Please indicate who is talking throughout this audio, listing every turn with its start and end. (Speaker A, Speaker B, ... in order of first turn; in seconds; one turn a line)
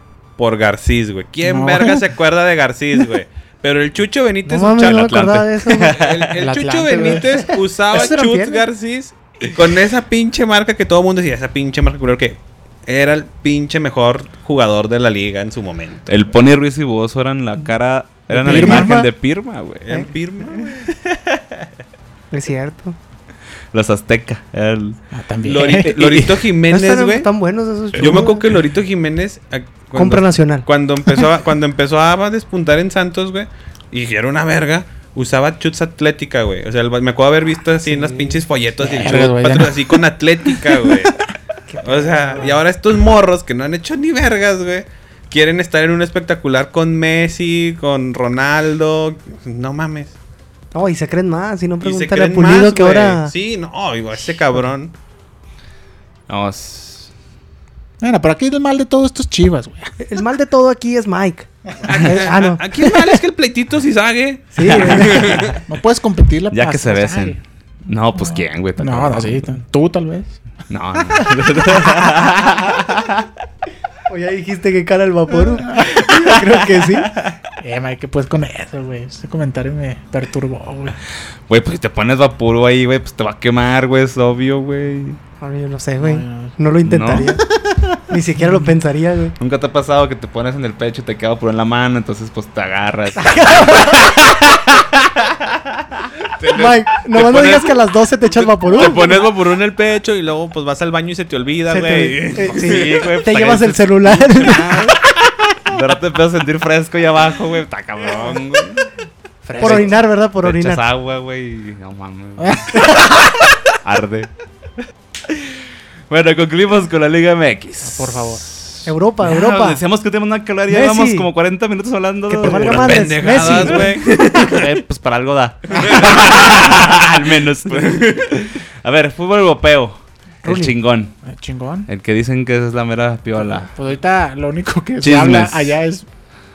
Speaker A: 0.4-16.1
Speaker B: 1.4-2.0
Speaker C: 4.5-6.0
Speaker D: 5.7-6.3
Speaker B: 6.4-7.2
Speaker C: 6.9-8.6
Speaker D: 16.1-19.8
Speaker C: 18.3-19.1
Speaker B: 18.4-18.9
Speaker A: 19.8-20.8
Speaker D: 20.6-21.6
Speaker C: 22.3-22.9
Speaker D: 23.7-26.5
Speaker B: 25.1-25.9
Speaker A: 25.4-27.3
Speaker C: 26.7-28.5
Speaker A: 27.9-41.2
Speaker C: 29.9-30.6
Speaker C: 37.8-38.4
Speaker B: 38.8-39.9
Speaker C: 41.7-42.6
Speaker A: 41.8-50.1
Speaker C: 50.7-53.3
Speaker A: 51.8-54.9
Speaker D: 56.3-57.1
Speaker B: 58.0-59.9
Speaker C: 60.0-63.2
Speaker A: 61.8-65.6
Speaker C: 64.5-65.5
Speaker D: 64.6-65.2
Speaker B: 65.6-67.4
Speaker D: 66.5-69.5
Speaker B: 68.2-70.3
Speaker D: 70.7-73.3
Speaker C: 74.1-77.1
Speaker D: 75.8-77.3
Speaker B: 77.6-81.0
Speaker D: 81.5-85.2
Speaker C: 85.4-87.4
Speaker B: 86.0-86.5
Speaker D: 86.8-87.8
Speaker C: 88.1-89.3
Speaker D: 89.4-95.8
Speaker C: 93.2-94.2
Speaker A: 96.4-103.0
Speaker C: 96.5-99.2
Speaker C: 101.7-104.9
Speaker D: 102.3-105.0
Speaker D: 105.6-108.9
Speaker B: 109.4-109.9
Speaker D: 109.5-113.1
Speaker C: 109.6-110.8
Speaker B: 112.4-113.5
Speaker D: 113.7-114.3
Speaker D: 115.3-115.6
Speaker D: 116.1-131.1
Speaker B: 117.8-118.4
Speaker C: 118.8-119.8
Speaker C: 120.7-121.3
Speaker C: 122.3-124.0
Speaker A: 122.6-124.7
Speaker A: 125.8-127.0
Speaker A: 127.8-128.4
Speaker B: 131.2-131.9
Speaker D: 131.9-133.7
Speaker B: 133.6-136.1
Speaker D: 135.0-135.8